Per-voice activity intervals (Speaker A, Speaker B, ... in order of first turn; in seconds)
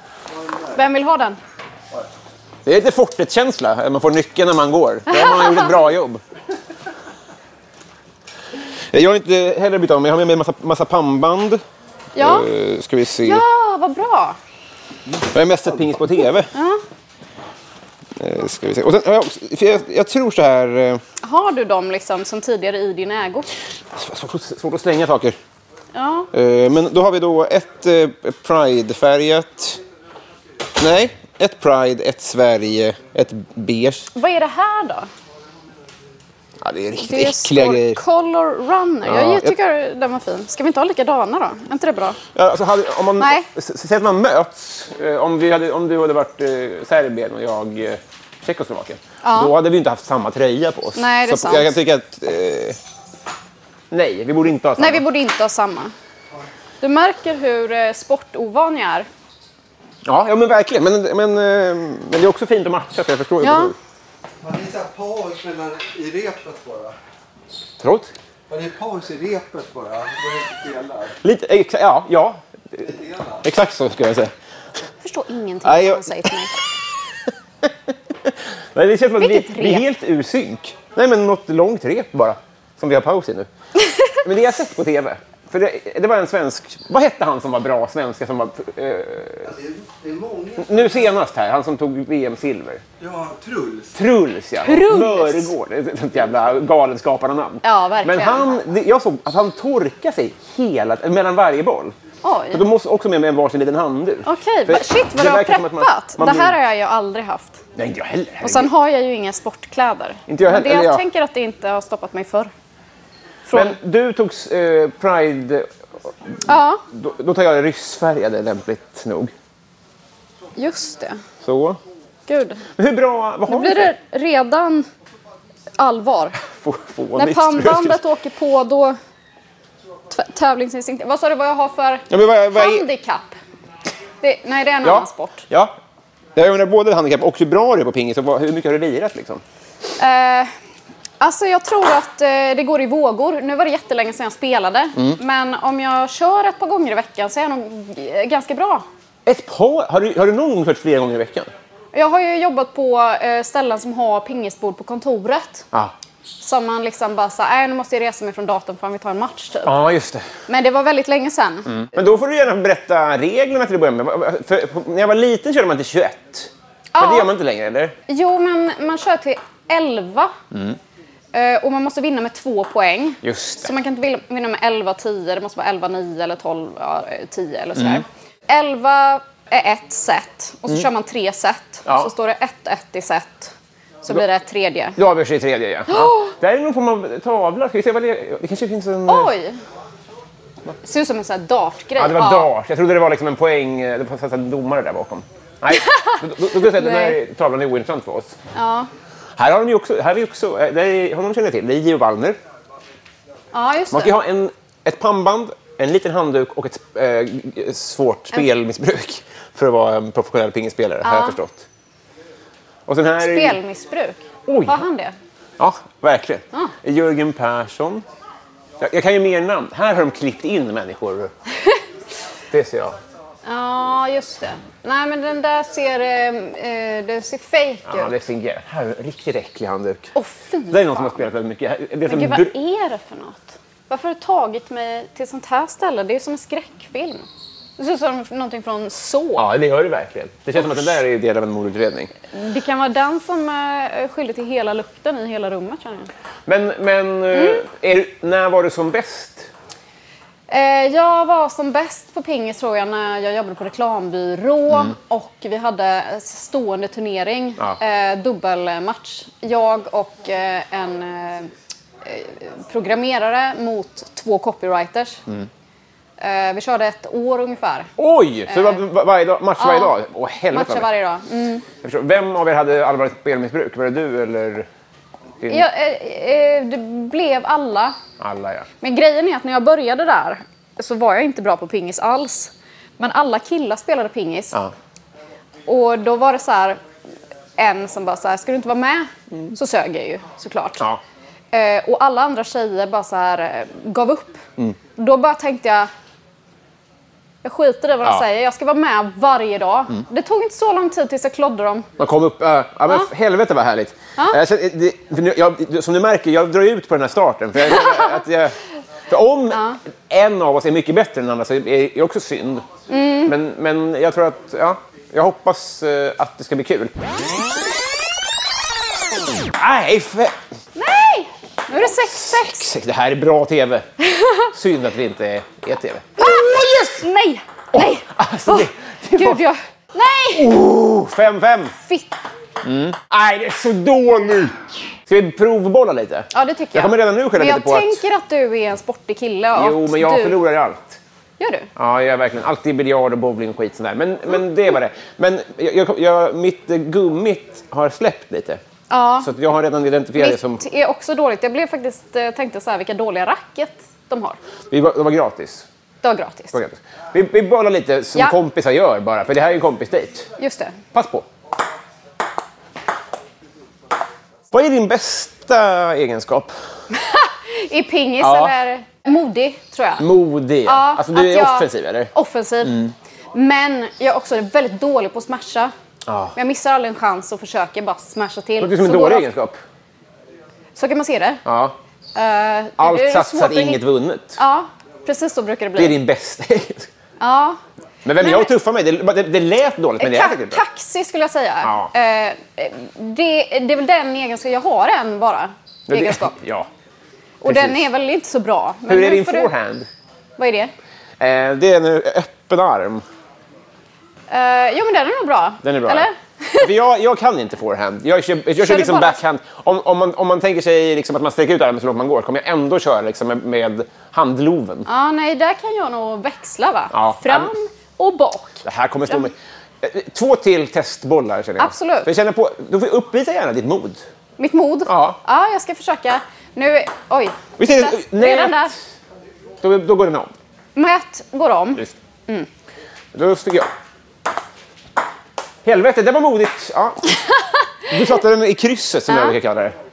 Speaker A: 0.3-0.8, 64.4-67.0, 68.5-71.2, 72.8-73.4, 89.4-91.1, 93.0-94.0
Speaker B: 0.7-1.4, 5.1-5.7, 12.2-12.5, 13.2-14.4, 16.5-16.8, 21.2-23.5, 25.9-26.3, 34.1-35.1, 37.0-42.2, 43.2-43.5, 49.2-49.5, 51.0-51.7, 54.8-55.9, 56.8-59.1, 63.4-63.7, 75.0-76.5, 79.2-79.8, 94.7-95.5, 97.6-98.6, 102.2-102.6, 104.2-107.6, 108.4-112.5, 113.5-113.8, 116.5-116.8, 120.6-121.2, 122.3-122.7, 123.5-124.9, 125.8-126.4, 127.2-129.0, 130.1-133.4, 134.2-135.4, 140.0-140.5, 141.2-148.9, 151.9-155.7, 156.4-159.8, 160.5-161.8, 166.9-167.3, 168.1-170.3, 171.3-183.5, 184.0-185.0, 185.9-186.3, 189.1-189.6, 190.8-192.5, 195.7-197.2, 198.5-198.9, 203.5-204.2, 211.0-211.4, 213.2-215.2, 223.4-228.2, 230.2-231.3, 232.1-237.3, 237.8-239.5, 242.3-246.1, 247.3-247.6, 250.5-261.5, 262.0-265.2, 266.2-267.9, 268.5-268.8, 269.6-269.9, 270.5-271.6, 275.5-278.0, 278.8-284.6, 285.7-286.8, 287.6-290.8, 291.5-294.4, 295.0-295.9, 297.4-301.9, 307.6-308.1, 309.5-309.8, 312.9-313.3, 320.8-322.7, 324.1-324.5, 326.2-330.5, 331.8-332.1, 336.3-340.4, 341.4-341.7, 348.9-349.3, 350.2-354.4, 356.0-356.6, 360.4-360.8, 366.9-370.1, 370.6-372.8, 373.3-375.7, 376.4-379.3, 380.8-381.4, 382.1-383.8, 384.4-386.0, 387.2-387.6, 388.1-388.5, 390.0-396.3, 397.4-399.5, 400.4-400.7, 404.3-406.7, 408.6-409.2, 414.9-419.3, 421.6-422.1, 424.4-428.7, 430.8-432.5, 439.1-439.4
Speaker C: 2.6-6.2, 8.9-11.6, 12.2-13.4, 15.2-16.5, 18.2-21.0, 23.9-25.4, 26.3-29.8, 30.8-34.1, 36.6-38.0, 39.1-39.5, 42.4-52.8, 53.9-55.0, 60.1-63.8, 67.8-68.1, 71.2-72.9, 73.4-74.3, 75.7-76.3, 77.6-83.5, 84.1-89.5, 90.6-92.8, 94.0-102.0, 102.5-106.5, 107.8-108.7, 110.3-111.0, 113.5-115.7, 116.9-119.3, 121.4-121.8, 122.8-123.9, 126.5-128.0, 132.1-132.8, 134.8-135.7, 136.4-139.4, 149.3-151.5, 159.7-160.2, 161.8-167.9, 170.5-170.8, 173.2-173.7, 177.8-178.0, 185.0-189.3, 192.0-198.4, 199.4-202.4, 203.9-211.7, 212.9-213.6, 214.5-214.9, 215.6-218.1, 218.8-221.3, 222.5-223.0, 227.9-230.1, 230.7-232.5, 239.4-242.1, 246.5-249.5, 268.0-270.9, 271.8-274.7, 278.2-278.7, 302.0-308.6, 309.1-312.7, 313.3-316.9, 319.5-320.4, 322.1-323.9, 324.5-327.0, 327.7-329.4, 330.4-331.8, 332.6-334.6, 335.1-338.0, 339.6-341.0, 341.8-348.6, 349.2-350.6, 354.7-355.7, 356.5-360.3, 360.9-361.3, 364.5-366.5, 368.2-368.5, 370.0-372.1, 372.6-372.9, 376.1-376.3, 378.6-379.6, 381.4-381.8, 382.8-384.4, 385.8-386.9, 388.1-390.6, 391.6-391.9, 395.9-396.7, 397.4-397.9, 398.9-399.9, 401.2-403.0, 405.6-406.1, 406.6-414.9, 416.9-417.5, 418.6-424.0, 424.9-425.2, 427.6-428.8, 429.6-430.3, 433.1-433.7, 435.6-437.2, 437.9-439.8